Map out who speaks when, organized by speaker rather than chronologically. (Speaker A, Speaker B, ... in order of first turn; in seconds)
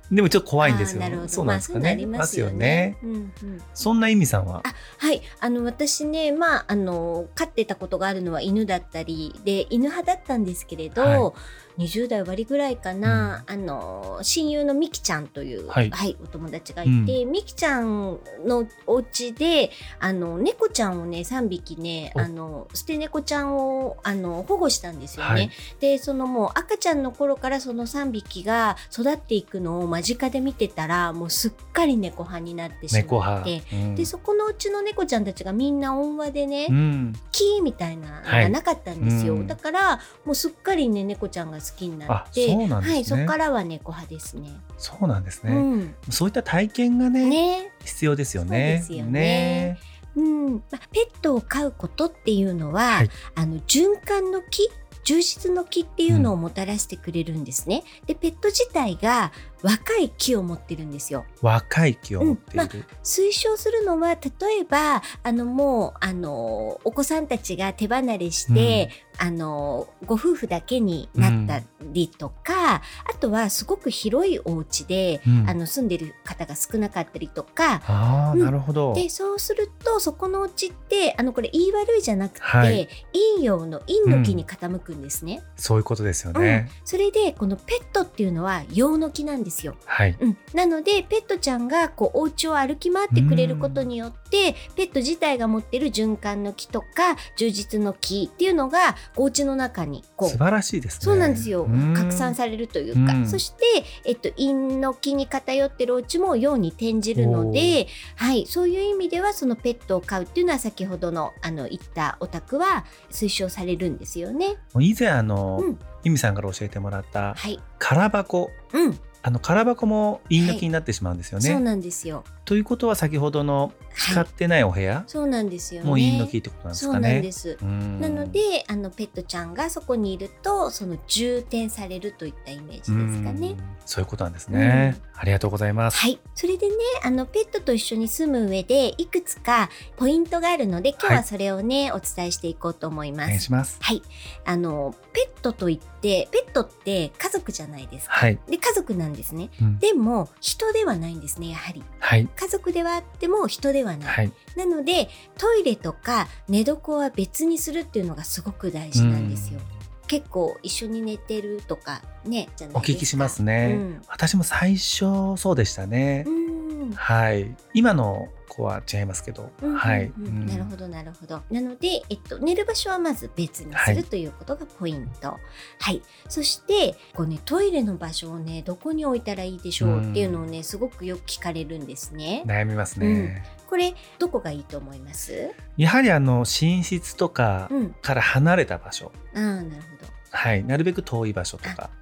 Speaker A: 0.1-3.0, 3.8-4.7, 11.0-11.3, 13.1-13.4, 15.7-15.9, 16.9-17.2, 25.2-25.5, 32.9-34.1, 36.7-37.2, 38.2-39.6, 42.1-43.4, 44.8-49.8, 56.1-56.3, 61.4-62.9, 68.5-68.9, 71.2-71.6, 75.2-75.6, 77.9-79.1, 82.4-82.8, 84.1-84.4, 85.6-86.7, 89.9-90.2, 93.1-93.9, 100.2-102.4, 102.9-103.4, 107.1-107.8, 114.8-118.5, 119.2-121.6, 122.5-125.1, 125.8-128.4, 132.9-136.0, 143.2-143.8, 148.1-148.4, 152.0-152.3, 154.1-154.3, 158.9-159.7, 162.7-166.3, 167.0-170.7, 173.7-174.1, 179.8-180.4, 182.4-183.5, 185.8-189.1, 190.3-191.9
Speaker B: 0.6-3.7, 4.6-36.8, 37.3-44.6, 45.5-46.0, 47.2-47.7, 48.5-61.3, 62.2-85.5, 86.3-100.4, 101.0-114.6, 115.6-115.8, 117.3-117.6, 118.7-119.0, 120.4-120.7, 121.4-122.3, 123.9-124.3, 125.1-133.6, 134.5-135.0, 135.9-164.1, 166.2-167.0, 169.6-182.5, 183.0-185.5, 187.7-188.0, 189.3-190.1